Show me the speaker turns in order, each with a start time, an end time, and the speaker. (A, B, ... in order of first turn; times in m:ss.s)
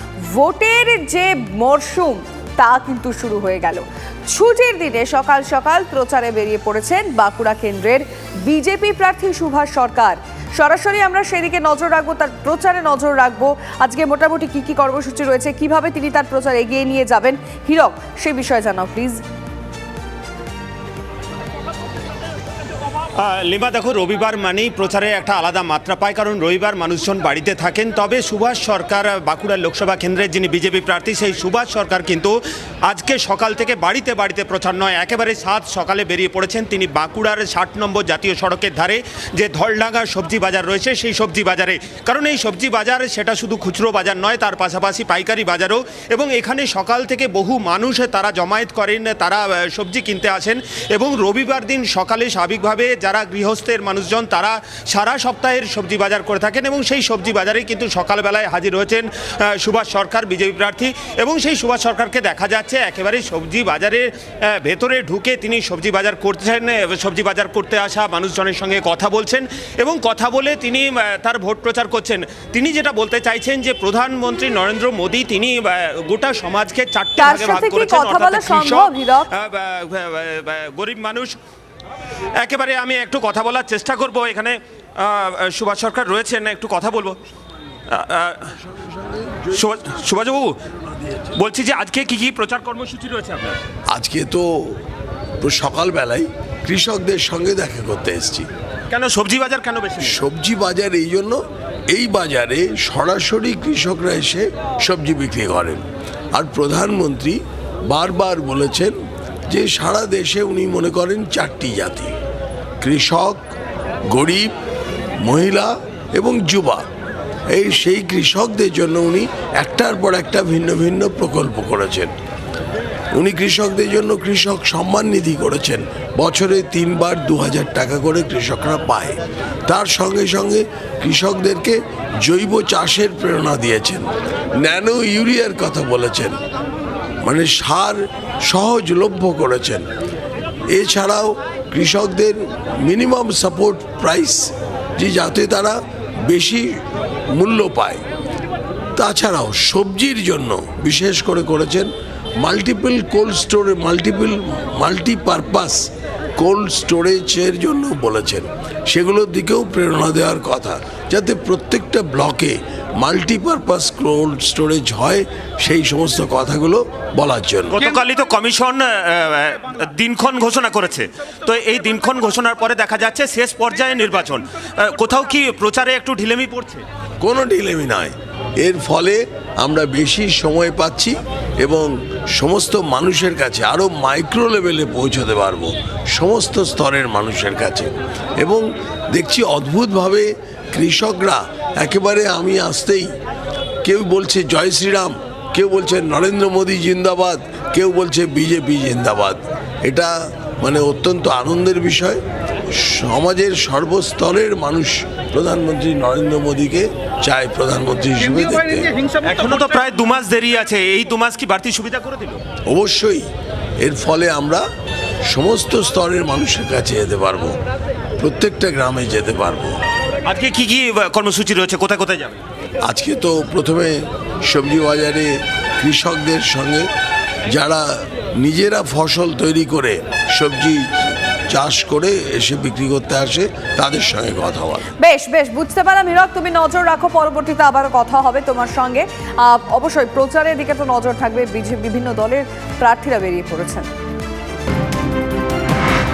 0:00.3-0:19.2 A
0:23.2-1:21.4 B
1:17.2-1:19.3 A
1:22.4-1:27.2 B
1:27.9-1:28.6 B
1:29.5-1:30.6 B
1:31.3-1:33.6 B
1:33.9-1:34.8 C
1:35.4-1:38.5 C
1:38.9-1:40.2 B
1:40.0-1:41.4 C
1:41.9-1:45.8 C
1:46.3-1:49.0 C
1:49.5-1:52.1 C
1:52.8-1:53.4 C
1:54.1-1:54.5 C
1:55.2-1:56.9 C
1:57.5-2:02.1 C
2:03.1-2:16.4 C
2:17.2-2:19.8 C
2:20.7-2:26.8 C
2:27.3-2:28.0 C
2:29.0-2:47.9 C
2:47.7-2:56.9 B
2:57.2-3:13.1 C
3:13.8-3:29.0 C
3:29.2-3:32.4 B
3:32.7-3:33.3 C
3:33.8-3:34.6 C
3:35.3-3:37.6 C
3:38.2-3:39.8 C
3:40.2-3:42.4 B
3:42.8-3:46.9 C
3:47.5-3:54.9 C
3:55.0-4:03.9 A